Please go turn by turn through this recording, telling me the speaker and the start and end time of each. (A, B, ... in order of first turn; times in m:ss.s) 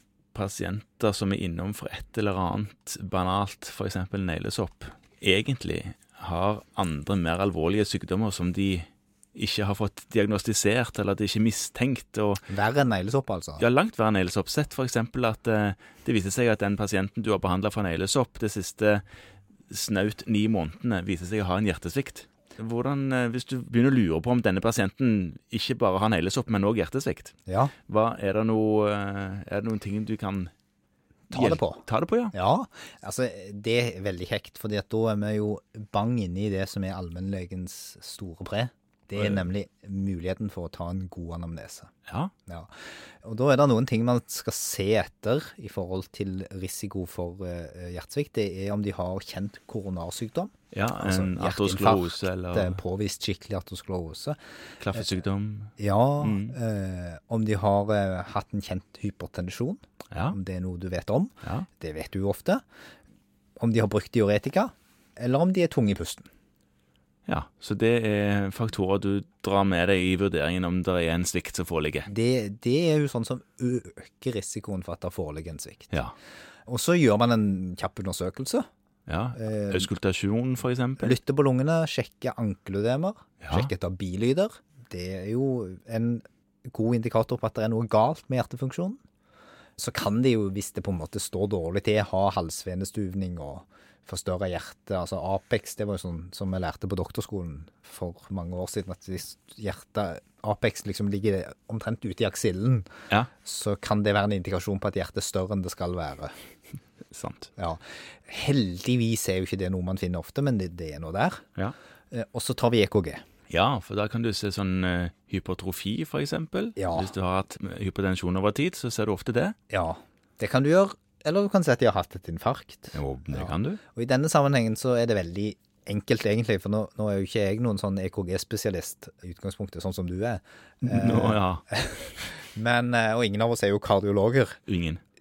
0:00.3-0:12.4 A
0:12.5-0:13.6 B
0:13.6-0:19.0 A
0:19.7-0:30.5 A
0:27.5-0:27.7 B
0:31.3-0:32.3 A
0:31.3-0:41.9 B
0:42.1-0:42.3 A
0:43.2-0:54.4 B
0:50.7-0:52.8 A
0:54.8-0:56.6 A
0:55.8-1:02.6 B
1:00.1-1:00.4 A
1:03.6-1:06.3 B
1:07.3-1:12.1 A
1:12.1-1:16.0 B
1:16.6-1:18.6 B
1:19.1-1:21.2 A
1:19.4-1:19.9 B
1:21.0-1:29.0 B
1:23.4-1:23.7 A
1:29.8-1:42.9 B
1:43.4-1:46.3 B
1:47.1-1:47.5 A
1:47.6-1:51.5 B
1:52.1-1:53.2 B
1:53.5-1:59.6 A
1:56.8-1:57.1 B
1:59.7-2:14.6 B
2:02.9-2:03.8 A
2:10.8-2:11.6 A
2:14.7-2:15.0 A